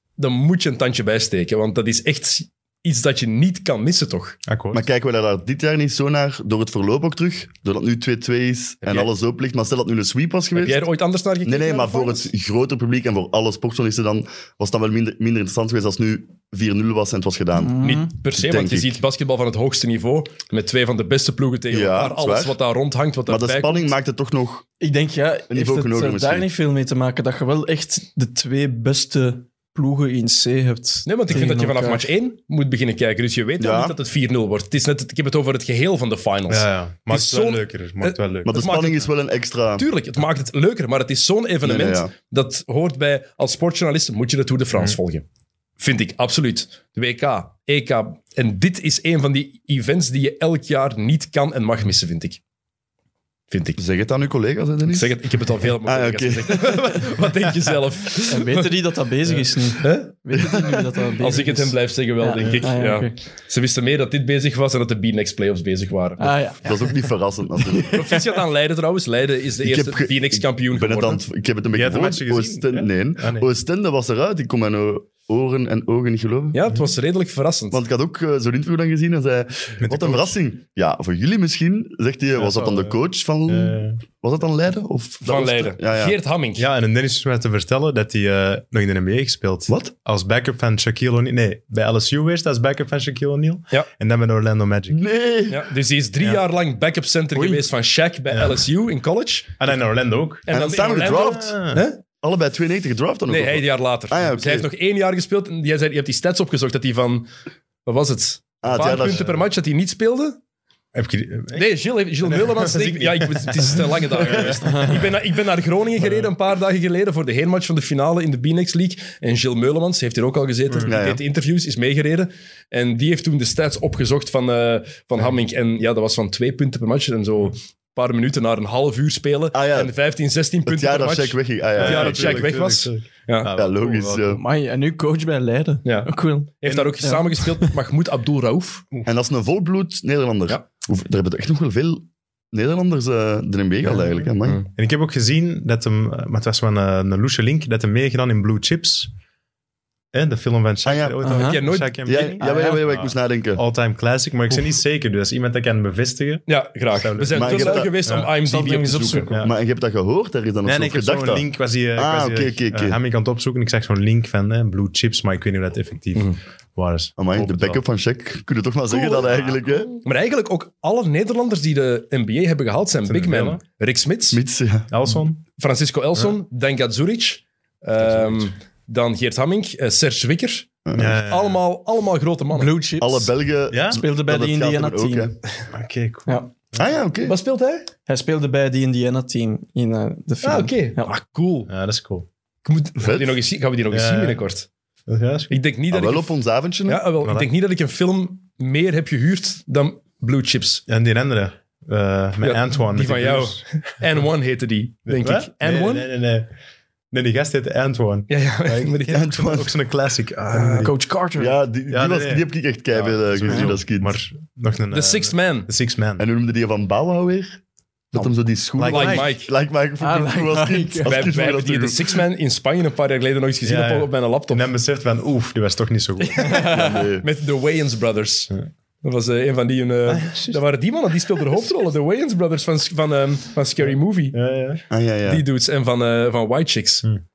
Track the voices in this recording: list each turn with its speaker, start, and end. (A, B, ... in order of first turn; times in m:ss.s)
0:00.2-0:04.4 A
0:04.5-0:04.8 B
0:04.7-0:10.8 C
0:08.8-0:09.1 A
0:10.6-0:12.3 A
0:11.4-0:19.0 C
0:17.5-0:18.1 D
0:17.8-0:23.9 A
0:21.7-0:22.6 C
0:23.3-0:24.7 C
0:24.8-0:32.1 D
0:25.5-0:26.5 C
0:31.0-0:39.1 A
0:33.6-0:34.0 C
0:36.5-0:38.8 B
0:38.4-0:39.9 C
0:39.8-0:45.2 A
0:41.6-0:42.1 C
0:45.8-0:52.4 A
0:53.5-0:53.8 A
0:53.8-0:55.2 C
0:54.9-0:58.8 A
0:55.8-0:57.1 C
0:58.3-1:03.2 D
0:59.6-1:00.5 A
1:01.2-1:06.3 A
1:06.2-1:07.1 D
1:06.6-1:08.0 C
1:07.6-1:08.2 D
1:07.9-1:11.2 A
1:09.6-1:16.6 C
1:11.7-1:13.5 B
1:16.5-1:17.8 A
1:17.7-1:26.2 C
1:19.8-1:20.4 B
1:22.4-1:24.0 B
1:25.2-1:26.7 A
1:26.6-1:35.0 B
1:34.9-1:35.7 C
1:35.5-1:39.6 A
1:37.4-1:37.6 D
1:38.3-1:38.6 B
1:39.6-1:40.5 B
1:40.5-1:42.0 A
1:40.5-1:41.6 C
1:41.2-1:41.8 B
1:42.2-1:44.7 C
1:43.3-1:47.3 A
1:47.8-1:50.4 A
1:48.6-1:49.3 C
1:48.6-1:49.3 B
1:50.9-1:55.1 B
1:51.5-2:13.5 A
1:56.0-1:56.3 B
2:00.9-2:01.2 C
2:09.5-2:09.9 C
2:10.7-2:12.5 C
2:11.7-2:14.4 B
2:13.5-2:14.4 C
2:14.3-2:17.7 D
2:15.8-2:18.8 A
2:16.7-2:17.0 B
2:19.0-2:24.6 C
2:23.9-2:29.1 B
2:30.1-2:38.3 B
2:30.8-2:31.2 C
2:31.2-2:31.6 D
2:31.3-2:32.0 A
2:32.1-2:33.6 C
2:32.4-2:32.8 D
2:36.5-2:39.2 A
2:37.3-2:38.0 C
2:38.4-2:39.4 D
2:38.9-2:43.0 C
2:39.3-2:39.6 B
2:40.6-2:47.8 B
2:47.2-2:50.0 C
2:48.9-2:54.4 A
2:53.1-2:53.6 B
2:54.3-2:54.9 C
2:54.9-2:55.4 B
2:55.6-3:00.7 A
3:00.9-3:01.2 C
3:00.9-3:01.6 B
3:01.2-3:02.7 A
3:02.5-3:05.4 D
3:03.0-3:05.3 C
3:03.7-3:04.0 B
3:05.7-3:07.0 B
3:06.8-3:07.4 C
3:07.2-3:07.9 A
3:08.1-3:11.1 D
3:10.4-3:11.7 A
3:11.7-3:12.3 B
3:12.6-3:14.7 A
3:13.0-3:13.4 C
3:13.9-3:14.4 B
3:15.1-3:15.6 B
3:15.5-3:20.8 A
3:15.9-3:17.0 C
3:17.2-3:17.5 B
3:20.9-3:23.7 B
3:22.4-3:26.1 A
3:25.1-3:26.5 B
3:27.1-3:30.9 B
3:28.3-3:29.3 A
3:29.1-3:29.8 C
3:30.6-3:31.6 D
3:31.4-3:34.2 C
3:31.9-3:36.3 B
3:33.5-3:33.8 D
3:34.9-3:35.7 A
3:36.2-3:37.6 C
3:38.1-3:42.0 C
3:38.8-3:39.3 B
3:38.9-3:39.5 A
3:40.0-3:41.3 D
3:41.0-3:44.7 A
3:43.6-3:46.8 B
3:46.2-3:54.4 A
3:46.5-3:46.8 D
3:46.6-3:47.3 C
3:50.1-3:50.6 B
3:53.8-3:54.8 B
3:54.9-3:55.4 C
3:55.3-3:57.1 A